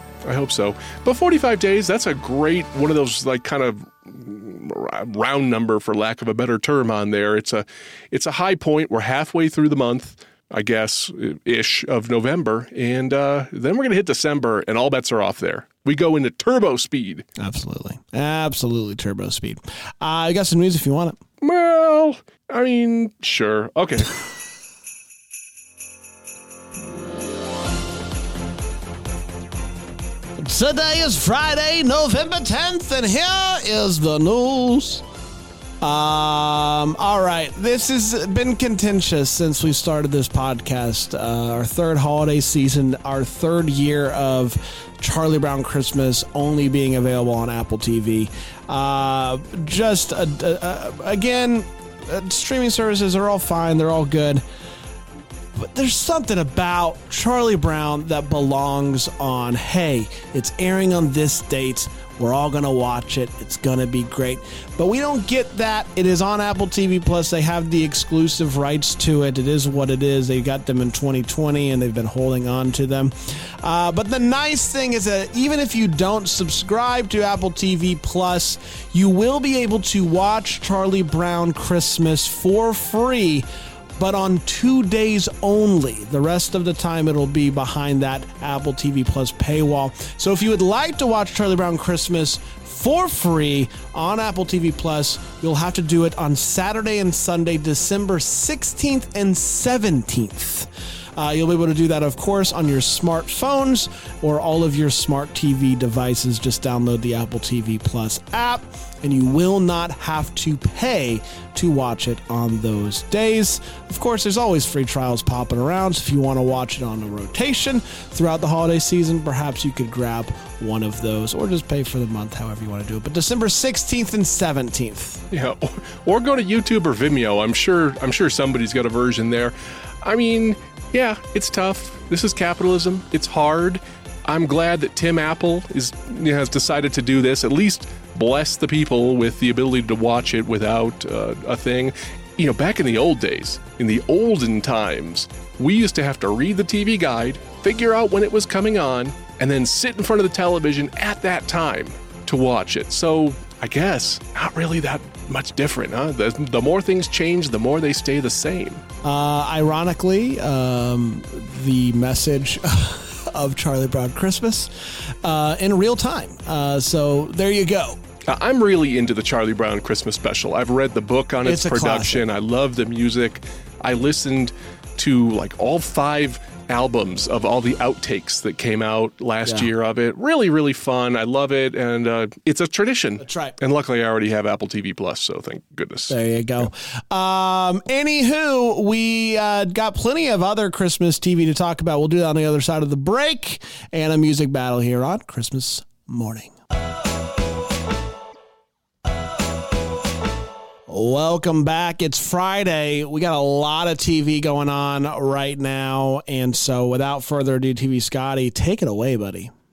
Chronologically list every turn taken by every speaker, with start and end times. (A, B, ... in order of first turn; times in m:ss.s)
0:00.2-0:17.2 A
0:17.4-0:21.2 B
0:21.4-0:24.2 A
0:30.4-0:35.0 B
0:35.8-0:54.4 B
0:55.6-1:23.5 B
1:24.0-2:05.2 B
2:05.3-2:38.8 A
2:39.0-2:44.7 B
2:45.2-2:48.0 B
2:48.3-3:06.6 A
2:51.4-2:52.2 B
2:59.4-2:59.7 B
3:03.2-3:03.6 B
3:06.1-3:16.5 B
3:20.9-3:29.5 B